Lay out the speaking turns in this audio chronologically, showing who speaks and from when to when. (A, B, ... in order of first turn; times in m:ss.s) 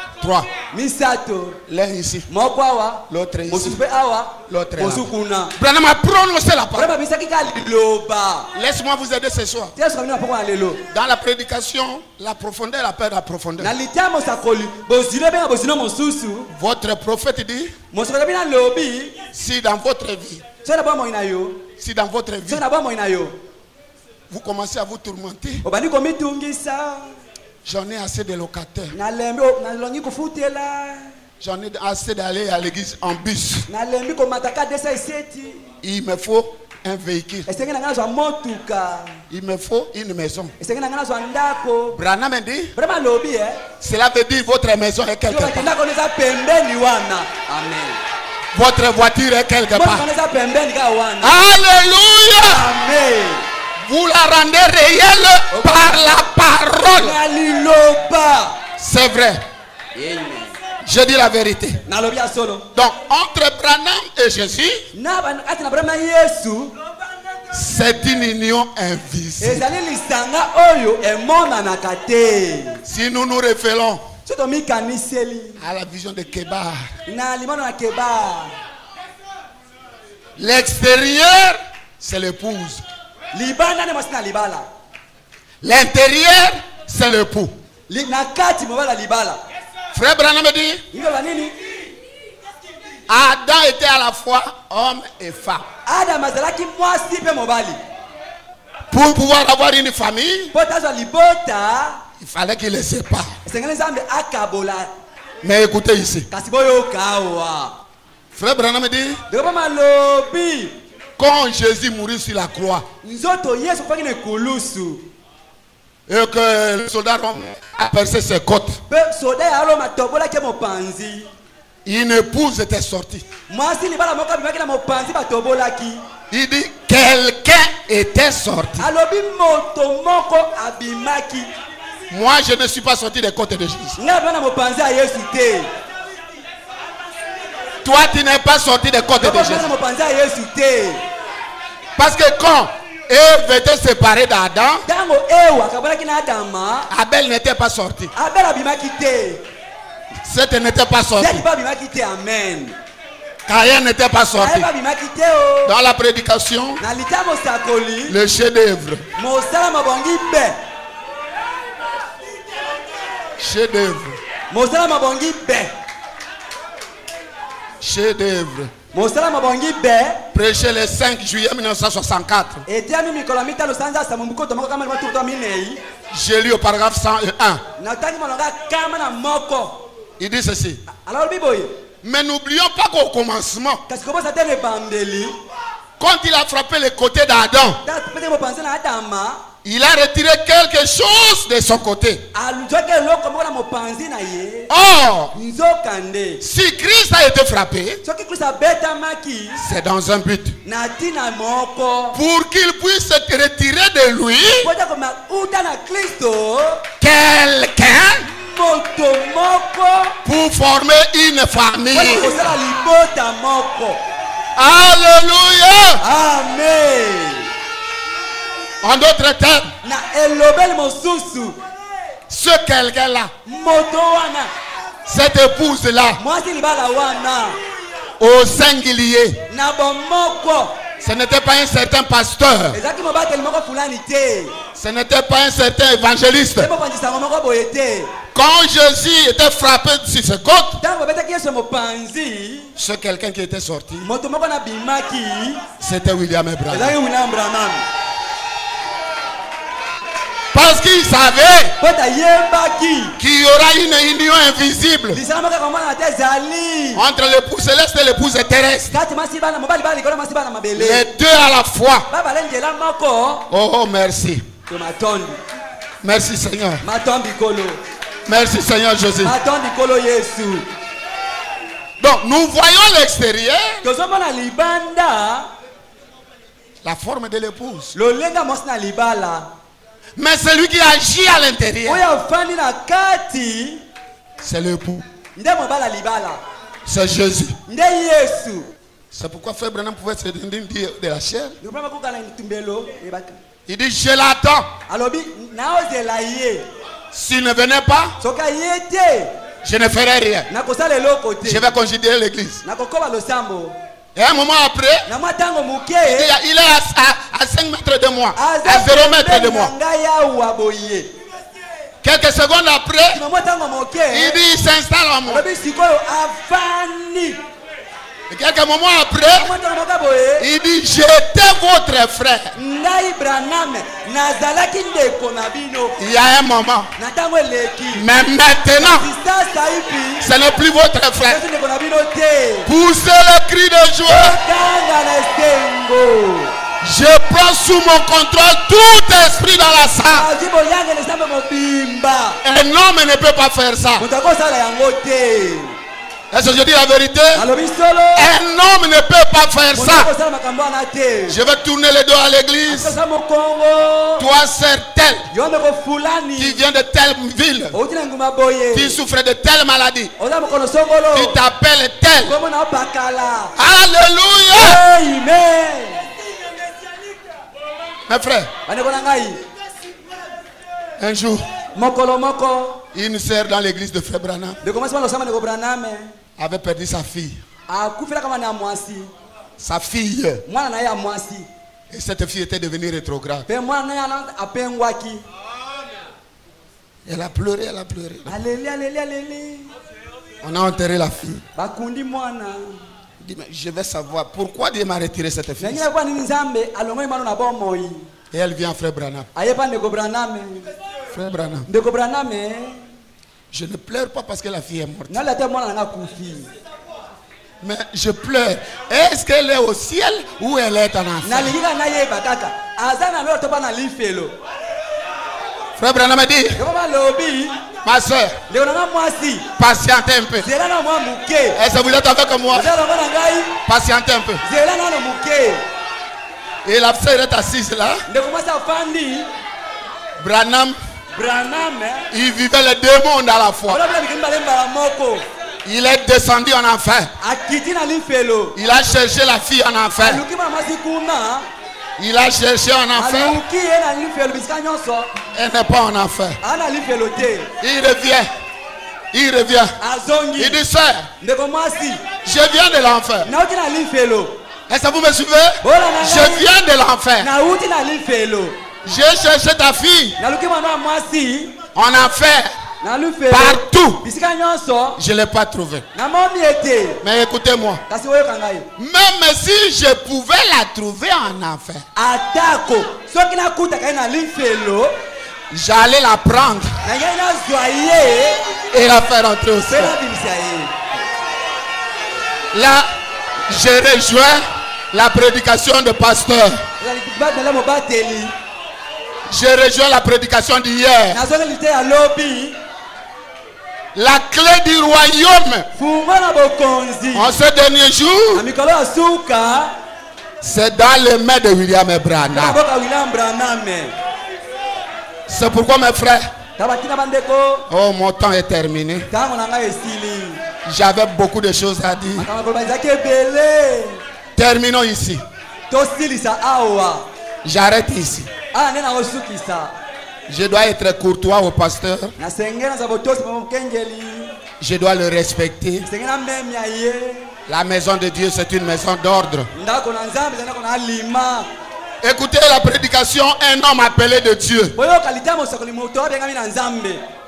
0:00.2-0:00.6 A
0:00.6-0:01.6 B
0:01.7-0:02.3 A
0:02.3-0:05.5 B
0:03.1-0:03.8 A
0:04.5-0:05.1 A
0:05.6-0:06.9 A
0:06.7-0:08.5 B
0:08.5-0:09.7 A
0:09.8-0:10.8 B
0:10.9-0:13.7 A
0:13.6-0:16.5 B
0:16.5-0:17.7 A
0:17.9-0:19.2 B
0:19.3-0:20.4 A
0:20.6-0:21.6 B
0:21.8-0:22.6 A
0:22.4-0:23.4 B
0:24.3-0:25.6 A
0:25.6-0:27.1 B
0:27.6-0:28.9 A
0:28.9-0:31.1 B
0:31.4-0:33.7 A
0:33.7-0:35.6 B
0:35.8-0:37.5 A
0:37.5-0:39.2 B
0:39.3-0:40.5 A
0:40.6-0:42.0 B
0:41.9-0:42.7 A
0:42.7-0:43.6 B
0:43.8-0:45.7 A
0:45.3-0:48.0 B
0:48.5-0:50.0 A
0:49.7-0:51.4 B
0:51.2-0:52.6 A
0:52.5-0:53.4 B
0:53.8-0:57.2 A
0:55.5-0:56.1 B
0:57.0-0:58.6 B
0:58.8-0:59.4 A
0:59.9-1:00.6 B
1:00.8-1:01.8 A
1:01.8-1:02.7 B
1:02.7-1:04.8 A
1:04.9-1:06.7 B
1:07.5-1:09.7 A
1:09.4-1:12.8 B
1:12.8-1:14.1 A
1:14.2-1:15.6 B
1:15.6-1:16.9 A
1:17.1-1:18.5 B
1:20.4-1:22.8 A
1:23.3-1:24.6 B
1:25.6-1:27.5 A
1:27.9-1:29.4 B
1:29.9-1:30.8 A
1:30.9-1:31.6 B
1:33.1-1:35.6 A
1:35.8-1:37.8 B
1:38.9-1:40.5 A
1:40.5-1:42.0 B
1:42.2-1:43.3 A
1:43.4-1:44.9 B
1:45.4-1:46.3 A
1:46.3-1:47.8 B
1:48.3-1:49.2 A
1:49.3-1:50.8 B
1:51.2-1:52.8 A
1:53.0-1:55.0 B
1:56.1-1:58.8 A
1:58.9-2:01.3 B
2:01.8-2:03.2 A
2:03.5-2:06.0 B
2:06.3-2:08.8 A
2:08.8-2:11.5 B
2:12.1-2:14.0 A
2:14.0-2:15.7 B
2:17.8-2:19.7 A
2:19.2-2:21.0 B
2:22.0-2:24.8 A
2:24.8-2:26.9 B
2:26.9-2:28.1 A
2:28.1-2:29.4 B
2:30.2-2:31.4 A
2:31.2-2:32.8 B
2:33.5-2:34.7 A
2:34.3-2:35.8 B
2:35.7-2:36.8 A
2:36.8-2:38.2 B
2:38.1-2:39.0 A
2:39.2-2:40.6 B
2:43.4-2:44.2 A
2:44.5-2:45.7 B
2:47.8-2:48.7 A
2:48.9-2:50.2 B
2:50.3-2:52.6 A
2:52.7-2:55.8 B
2:56.1-2:57.6 A
2:57.8-2:59.8 B
3:00.2-3:00.8 A
3:00.8-3:01.7 B
3:02.0-3:03.8 A
3:03.9-3:05.4 B
3:06.0-3:07.8 A
3:07.8-3:09.4 B
3:09.6-3:12.2 A
3:12.3-3:14.7 B
3:14.7-3:15.3 A
3:15.3-3:16.4 B
3:16.4-3:18.0 A
3:18.0-3:19.6 B
3:19.6-3:20.6 A
3:20.6-3:22.2 B
3:22.1-3:24.7 A
3:24.6-3:26.8 B
3:27.0-3:28.2 A
3:28.2-3:30.2 B
3:30.2-3:32.4 A
3:31.9-3:34.0 B
3:34.6-3:36.0 A
3:36.0-3:37.5 B
3:38.8-3:39.7 A
3:39.8-3:41.6 B
3:42.3-3:43.3 A
3:43.4-3:44.5 B
3:45.1-3:46.2 A
3:46.2-3:47.6 B
3:48.2-3:49.4 A
3:49.5-3:50.8 B
3:51.0-3:52.8 A
3:52.7-3:54.5 B
3:54.8-3:56.7 A
3:56.6-3:58.1 B
3:58.3-4:00.8 A
4:00.8-4:02.7 B
4:02.8-4:04.1 A
4:04.0-4:05.7 B
4:05.8-4:06.9 A
4:06.7-4:07.8 B
4:10.5-4:11.7 A
4:11.8-4:13.1 B
4:13.2-4:15.2 A
4:15.1-4:17.0 B
4:17.0-4:19.0 A
4:18.9-4:21.0 B
4:20.8-4:22.0 A
4:22.1-4:23.5 B
4:23.5-4:24.4 A
4:24.7-4:25.4 B
4:26.0-4:26.8 A
4:26.8-4:27.8 B
4:28.3-4:29.3 A
4:29.2-4:30.7 B
4:32.0-4:33.8 A
4:33.8-4:35.5 B
4:36.8-4:37.9 A
4:37.9-4:39.5 B
4:40.2-4:42.0 A
4:41.8-4:43.8 B
4:44.4-4:45.0 A
4:45.4-4:46.4 B
4:46.8-4:47.6 A
4:47.7-4:48.7 B
4:49.1-4:51.5 A
4:51.6-4:53.4 B
4:53.7-4:54.7 A
4:54.9-4:56.7 B
4:57.1-4:58.1 A
4:58.2-4:59.3 B
4:59.6-5:00.5 A
5:00.5-5:01.7 B
5:01.4-5:02.6 A
5:02.6-5:03.8 B
5:04.1-5:05.1 A
5:05.1-5:06.3 B
5:06.1-5:09.7 A
5:08.3-5:11.1 B
5:12.0-5:13.2 A
5:13.1-5:14.4 B
5:14.1-5:15.4 A
5:15.2-5:17.4 B
5:18.3-5:19.5 A
5:19.4-5:20.5 B
5:20.4-5:22.5 A
5:22.6-5:25.9 B
5:26.0-5:26.9 A
5:27.0-5:28.0 B
5:28.0-5:29.0 A
5:28.8-5:30.3 B
5:30.2-5:31.4 A
5:31.3-5:32.7 B
5:32.7-5:34.4 A
5:34.1-5:36.5 B
5:36.8-5:40.2 A
5:40.1-5:42.4 B
5:42.4-5:44.0 A
5:44.0-5:45.8 B
5:46.3-5:47.4 A
5:47.3-5:48.3 B
5:48.2-5:50.1 A
5:49.7-5:51.4 B
5:51.3-5:53.0 A
5:52.7-5:54.3 B
5:54.2-5:55.2 A
5:55.3-5:56.6 B
5:56.4-5:57.8 A
5:57.7-5:59.0 B
5:58.7-6:00.1 A
6:00.2-6:01.4 B
6:01.1-6:02.3 A
6:02.2-6:03.5 B
6:03.6-6:04.8 A
6:04.5-6:06.1 B
6:08.1-6:08.5 A
6:08.7-6:09.4 B
6:11.0-6:11.4 A
6:11.7-6:12.8 B
6:12.9-6:14.6 A
6:14.6-6:16.1 B
6:16.4-6:17.4 A
6:17.7-6:19.1 B
6:19.6-6:20.4 A
6:20.5-6:21.5 B
6:21.9-6:23.5 A
6:23.5-6:25.2 B
6:27.1-6:28.4 A
6:28.2-6:29.7 B
6:30.4-6:31.4 A
6:31.5-6:32.8 B
6:33.2-6:35.9 A
6:35.6-6:38.1 B
6:38.3-6:39.3 A
6:39.3-6:40.7 B
6:41.1-6:41.6 A
6:41.7-6:42.8 B
6:43.5-6:45.2 A
6:45.1-6:46.5 B
6:47.6-6:51.5 A
6:51.2-6:54.3 B
6:55.8-6:56.6 A
6:56.6-6:57.6 B
6:57.8-6:58.4 A
6:58.5-6:59.5 B
6:59.6-7:00.5 A
7:00.4-7:01.6 B
7:01.5-7:02.7 A
7:02.5-7:03.6 B
7:03.7-7:04.4 A
7:04.4-7:05.6 B
7:06.6-7:08.0 A
7:08.1-7:09.3 B
7:10.2-7:10.8 A
7:11.1-7:12.1 B
7:12.1-7:13.8 A
7:13.7-7:15.2 B
7:15.6-7:17.1 A
7:17.2-7:18.6 B
7:18.6-7:20.2 A
7:20.0-7:21.5 B
7:22.0-7:23.4 A
7:22.9-7:25.1 B
7:25.3-7:26.4 A
7:26.4-7:27.5 B
7:27.6-7:28.3 A
7:29.1-7:29.7 A
7:29.8-7:30.6 B
7:30.4-7:31.1 A
7:31.2-7:32.0 B
7:32.2-7:33.3 A
7:33.2-7:34.4 B
7:34.7-7:37.3 A
7:35.6-7:36.5 B
7:37.2-7:38.6 B
7:38.8-7:40.2 A
7:40.2-7:41.6 B
7:41.7-7:42.5 A
7:42.8-7:45.0 B
7:43.3-7:44.0 A
7:45.0-7:45.8 A
7:45.9-7:47.0 B
7:47.0-7:47.8 A
7:47.9-7:48.7 B
7:48.8-7:51.8 A
7:52.0-7:55.0 B
7:55.5-7:56.8 A
7:56.8-7:58.4 B
7:58.7-7:59.9 A
7:59.7-8:00.7 B
8:02.5-8:02.9 A
8:03.5-8:06.6 A
8:06.8-8:08.3 B
8:09.3-8:11.2 A
8:11.1-8:12.6 B
8:14.0-8:15.7 A
8:15.8-8:17.3 B
8:17.1-8:18.4 A
8:18.3-8:19.7 B
8:20.4-8:22.6 A
8:22.2-8:23.9 B
8:25.3-8:26.3 A
8:26.6-8:27.6 B
8:27.7-8:29.1 A
8:29.1-8:30.4 B
8:30.6-8:32.3 A
8:32.2-8:34.0 B
8:34.4-8:35.2 A
8:35.7-8:37.1 B
8:37.4-8:38.3 A
8:38.5-8:39.7 B
8:40.3-8:42.1 A
8:42.2-8:44.3 B
8:44.6-8:45.9 A
8:45.8-8:47.3 B
8:47.5-8:49.5 A
8:49.5-8:51.5 B
8:52.0-8:54.7 A
8:54.7-8:57.0 B